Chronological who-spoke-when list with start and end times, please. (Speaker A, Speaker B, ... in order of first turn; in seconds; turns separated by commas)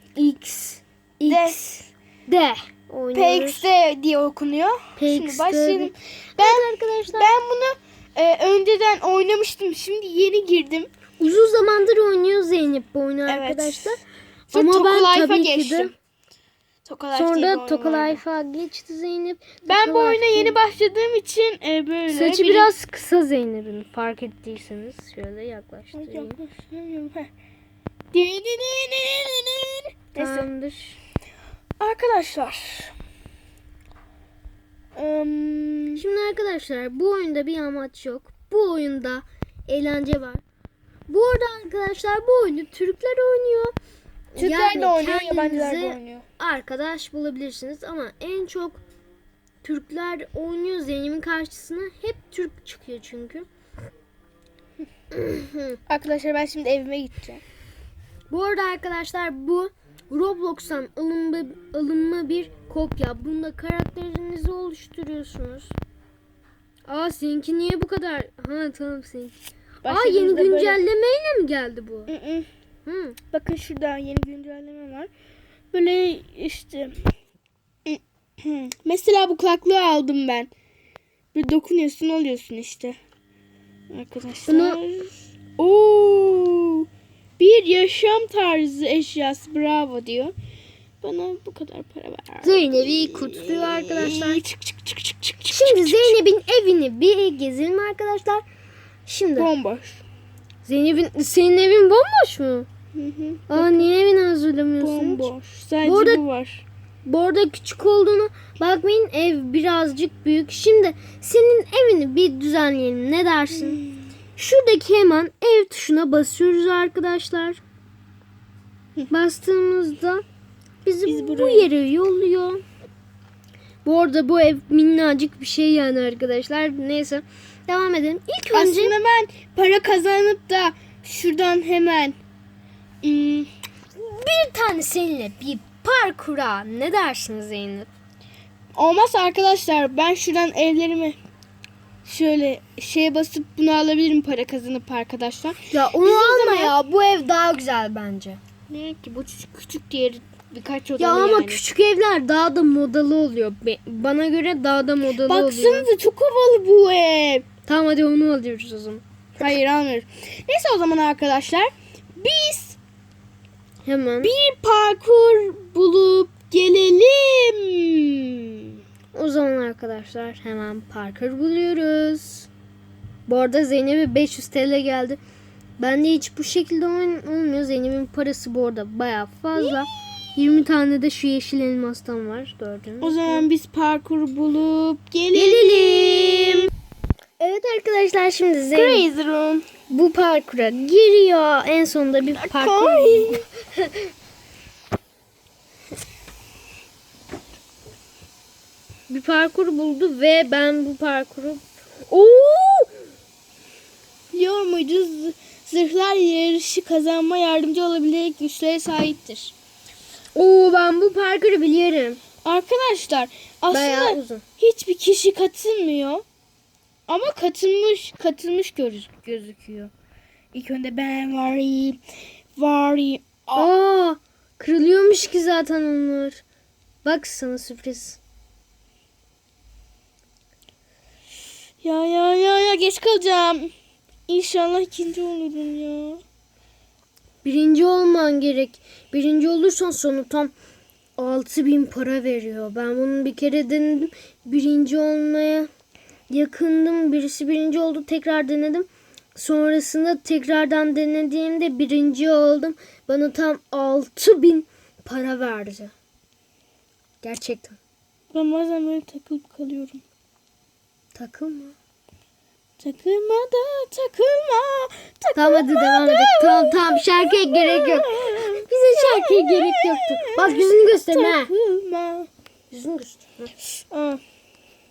Speaker A: 0.2-1.6, Speaker B: 1.3-1.9, Speaker A: 2.3-3.7, Speaker B: 3.1-10.9, Speaker A: 5.0-7.3, Speaker A: 11.2-14.0, Speaker B: 13.3-14.0, Speaker B: 14.5-15.9, Speaker A: 14.5-15.9, Speaker B: 16.9-18.2, Speaker A: 17.1-20.6, Speaker B: 19.7-22.7, Speaker A: 22.1-26.4, Speaker B: 25.9-27.3, Speaker B: 28.1-30.5, Speaker A: 30.2-31.0, Speaker B: 31.8-32.9, Speaker B: 35.0-36.0, Speaker A: 36.0-40.4, Speaker A: 41.1-43.7, Speaker A: 44.3-48.8, Speaker B: 44.4-46.2, Speaker A: 49.6-53.5, Speaker A: 55.1-55.8, Speaker B: 55.9-57.4, Speaker A: 58.3-65.7, Speaker A: 66.9-72.1, Speaker B: 69.8-70.8, Speaker B: 72.1-72.5, Speaker A: 72.9-73.2, Speaker B: 73.3-75.1, Speaker B: 75.7-77.1, Speaker B: 77.9-80.5, Speaker B: 81.3-83.0, Speaker B: 83.9-86.9, Speaker A: 84.5-84.8, Speaker B: 87.4-90.3, Speaker B: 91.0-96.2, Speaker A: 92.4-94.4, Speaker A: 95.5-98.4, Speaker A: 99.1-99.5, Speaker B: 99.4-100.0, Speaker A: 100.7-102.7, Speaker B: 103.0-103.9, Speaker A: 103.5-105.3, Speaker B: 104.8-106.6, Speaker A: 105.8-106.2, Speaker A: 107.0-113.8, Speaker B: 113.5-114.1, Speaker A: 114.4-117.6, Speaker A: 119.1-120.2, Speaker A: 120.8-122.6, Speaker B: 121.1-121.7, Speaker A: 123.8-129.0, Speaker B: 128.5-132.2, Speaker B: 133.0-133.5, Speaker A: 133.9-137.9, Speaker B: 138.8-141.2, Speaker B: 142.1-146.8, Speaker A: 145.7-149.7, Speaker B: 148.7-151.6, Speaker A: 151.0-155.9, Speaker B: 155.2-157.5, Speaker A: 157.7-159.0, Speaker B: 159.4-162.8, Speaker A: 163.8-164.3, Speaker B: 164.2-168.8, Speaker A: 169.1-172.5, Speaker A: 173.3-175.2, Speaker A: 175.8-183.4, Speaker B: 183.0-186.7, Speaker A: 185.3-186.7, Speaker A: 187.4-189.1, Speaker B: 188.7-189.7, Speaker A: 189.9-193.4, Speaker B: 192.3-193.5, Speaker A: 199.1-201.6, Speaker B: 202.1-202.9, Speaker B: 204.3-209.5, Speaker A: 210.3-212.2, Speaker B: 212.4-216.2, Speaker A: 213.7-214.4, Speaker B: 217.1-219.9, Speaker B: 220.5-222.0, Speaker B: 222.6-223.7, Speaker A: 223.6-226.4, Speaker A: 227.0-228.2, Speaker B: 231.8-233.7, Speaker B: 234.3-236.2, Speaker A: 237.4-240.5, Speaker A: 241.2-245.7, Speaker A: 246.3-255.9, Speaker A: 257.2-257.8, Speaker B: 258.3-260.0, Speaker A: 261.1-261.8, Speaker B: 262.8-272.3, Speaker A: 265.4-271.5, Speaker A: 272.7-273.5, Speaker B: 273.9-274.2